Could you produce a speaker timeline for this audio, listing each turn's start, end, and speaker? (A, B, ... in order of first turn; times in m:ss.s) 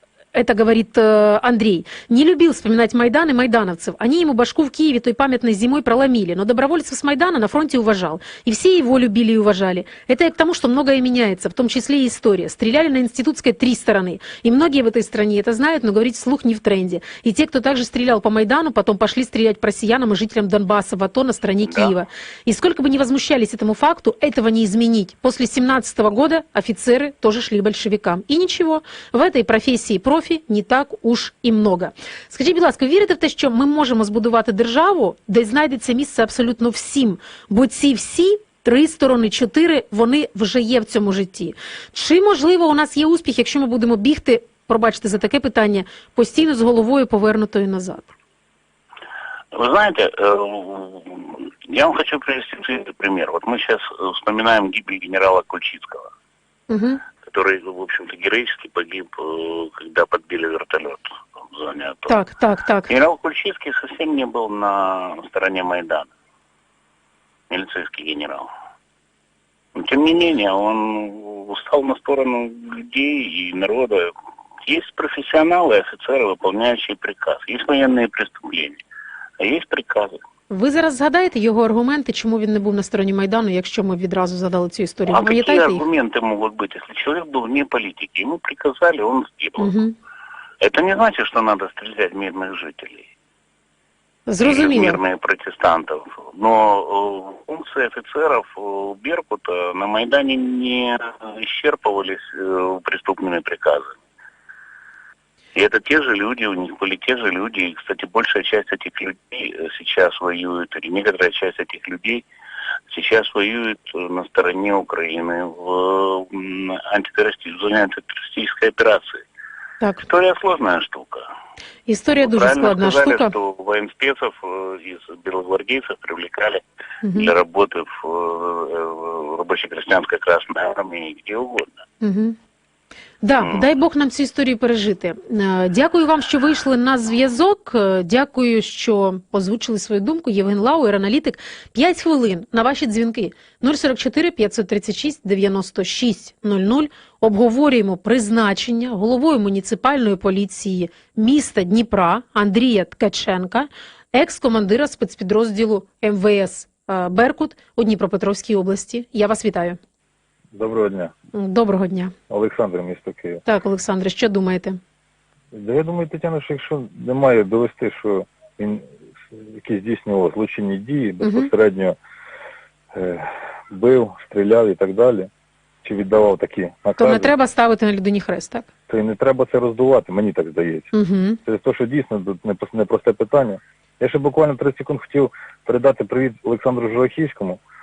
0:00.3-0:48.1 A
0:21.6-0:21.9 B
0:49.5-0:56.1 B
0:56.7-0:57.0 A
0:57.2-1:02.1 B
1:02.1-1:02.9 A
1:02.9-1:06.1 B
1:07.5-1:08.5 B
1:09.8-1:14.1 B
1:14.6-1:18.8 B
1:19.4-1:20.2 B
1:20.5-1:25.8 A
1:25.1-1:29.7 B
1:29.6-1:29.9 A
1:30.6-1:33.1 B
1:34.3-1:35.0 A
1:34.4-1:44.0 B
1:45.5-1:52.2 B
1:52.9-1:59.2 B
2:00.0-2:01.2 B
2:01.9-2:03.3 A
2:02.2-2:06.6 B
2:07.0-2:07.3 A
2:07.1-2:11.7 B
2:12.0-2:12.4 A
2:13.2-2:39.8 A
2:40.5-2:41.1 C
2:41.3-2:42.1 A
2:42.3-2:43.4 C
2:43.4-2:44.8 A
2:45.5-2:52.0 C
2:51.2-2:51.5 A
2:52.9-2:55.3 C
2:55.8-2:57.3 C
2:57.0-2:58.7 A
2:58.9-3:00.9 C
3:00.9-3:01.4 A
3:01.4-3:07.6 C